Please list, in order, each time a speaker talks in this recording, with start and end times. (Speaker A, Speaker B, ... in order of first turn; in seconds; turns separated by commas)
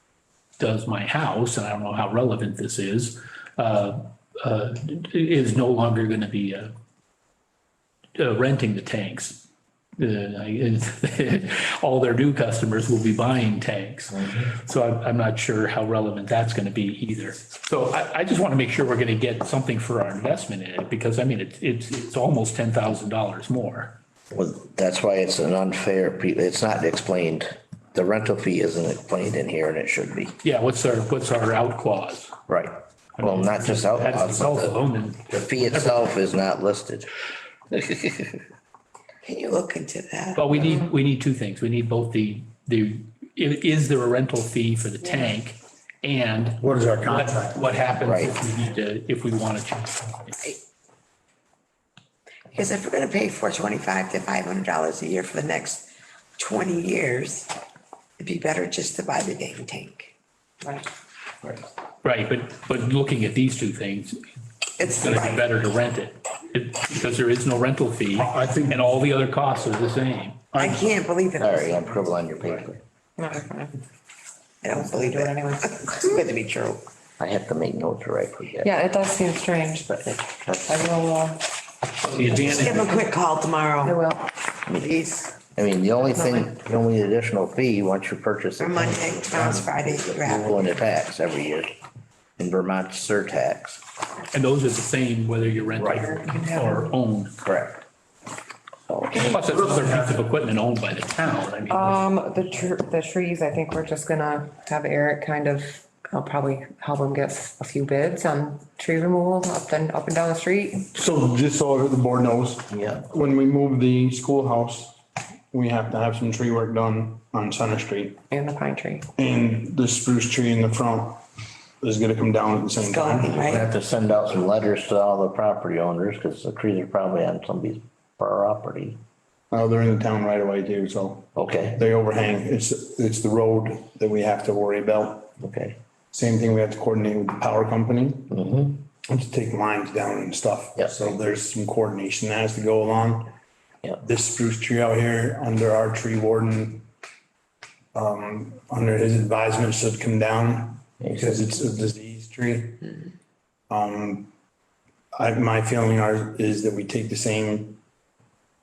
Speaker A: 0.6-6.7, Speaker A: 8.2-9.4, Speaker A: 10.0-24.0, Speaker B: 24.3-30.4, Speaker A: 30.4-32.4, Speaker B: 32.5-37.1, Speaker A: 33.2-36.0, Speaker B: 37.8-38.3, Speaker C: 39.2-40.8, Speaker A: 40.4-50.5, Speaker D: 46.6-47.6, Speaker B: 48.0-48.4, Speaker C: 52.5-57.5, Speaker C: 58.2-60.1, Speaker E: 60.6-60.9, Speaker A: 62.0-64.2, Speaker C: 64.8-65.4, Speaker A: 64.8-70.4, Speaker D: 68.2-68.8, Speaker D: 70.5-70.8, Speaker C: 70.5-72.1, Speaker B: 71.4-72.8, Speaker E: 73.2-73.8, Speaker C: 74.6-76.8, Speaker E: 74.7-76.1, Speaker B: 77.2-78.7, Speaker E: 78.6-81.5, Speaker B: 80.5-80.8, Speaker A: 82.0-82.9, Speaker E: 82.2-83.0, Speaker C: 82.4-84.0, Speaker E: 83.8-84.3, Speaker B: 84.7-85.0, Speaker C: 84.8-85.3, Speaker B: 85.6-91.7, Speaker C: 88.6-90.7, Speaker B: 92.4-93.8, Speaker A: 94.3-97.3, Speaker E: 95.9-96.9, Speaker B: 97.4-97.8, Speaker A: 99.1-102.0, Speaker D: 99.5-100.2, Speaker E: 101.7-110.9, Speaker D: 110.9-115.0, Speaker B: 112.7-113.0, Speaker D: 115.5-118.2, Speaker E: 118.3-119.1, Speaker D: 119.2-121.2, Speaker D: 121.8-123.4, Speaker C: 122.8-123.7, Speaker B: 123.4-129.0, Speaker D: 129.5-135.3, Speaker B: 131.4-131.8, Speaker B: 135.4-135.8, Speaker D: 136.1-138.3, Speaker B: 138.3-138.8, Speaker D: 139.1-143.3, Speaker D: 144.0-146.9, Speaker D: 147.9-152.9, Speaker D: 153.7-154.3, Speaker D: 155.1-157.8